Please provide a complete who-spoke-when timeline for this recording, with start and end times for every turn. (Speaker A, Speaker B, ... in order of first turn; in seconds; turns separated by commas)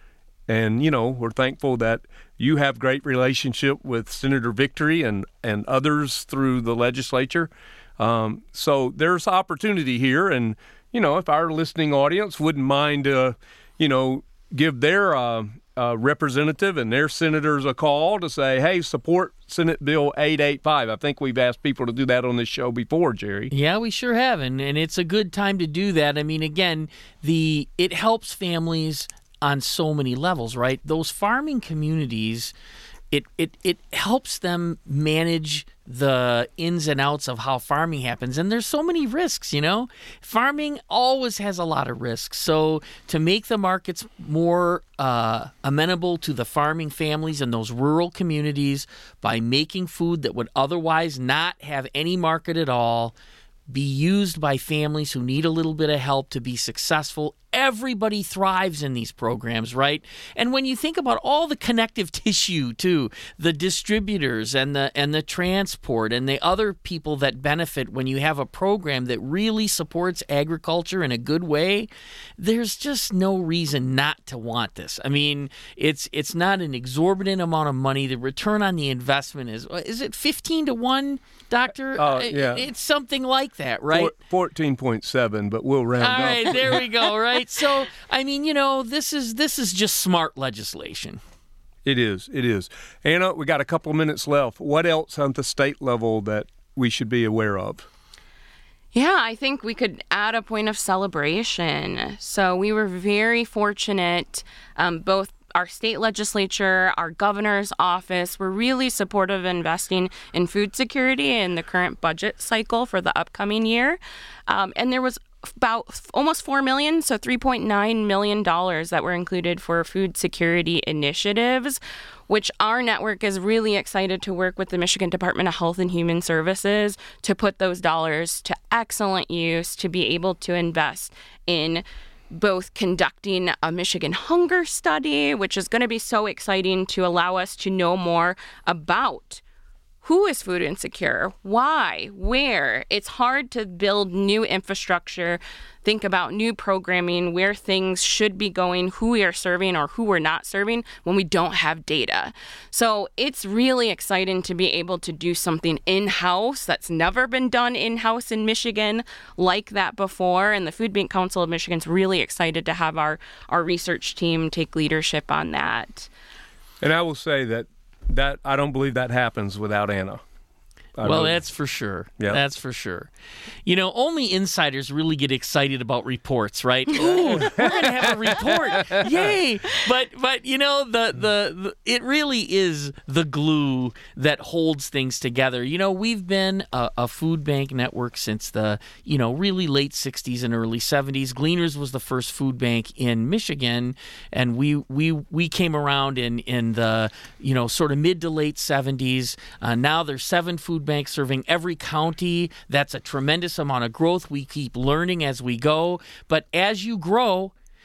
Speaker A: 0.5-23.5, Speaker B: 23.5-32.5, Speaker B: 33.1-53.1, Speaker B: 53.7-84.1, Speaker A: 82.0-82.7, Speaker A: 83.9-86.8, Speaker B: 86.0-91.2, Speaker A: 91.8-97.9, Speaker C: 98.9-139.4, Speaker C: 140.0-166.1, Speaker A: 166.8-170.2, Speaker A: 171.0-171.4, Speaker B: 171.0-173.1, Speaker B: 173.7-207.5, Speaker A: 177.0-179.3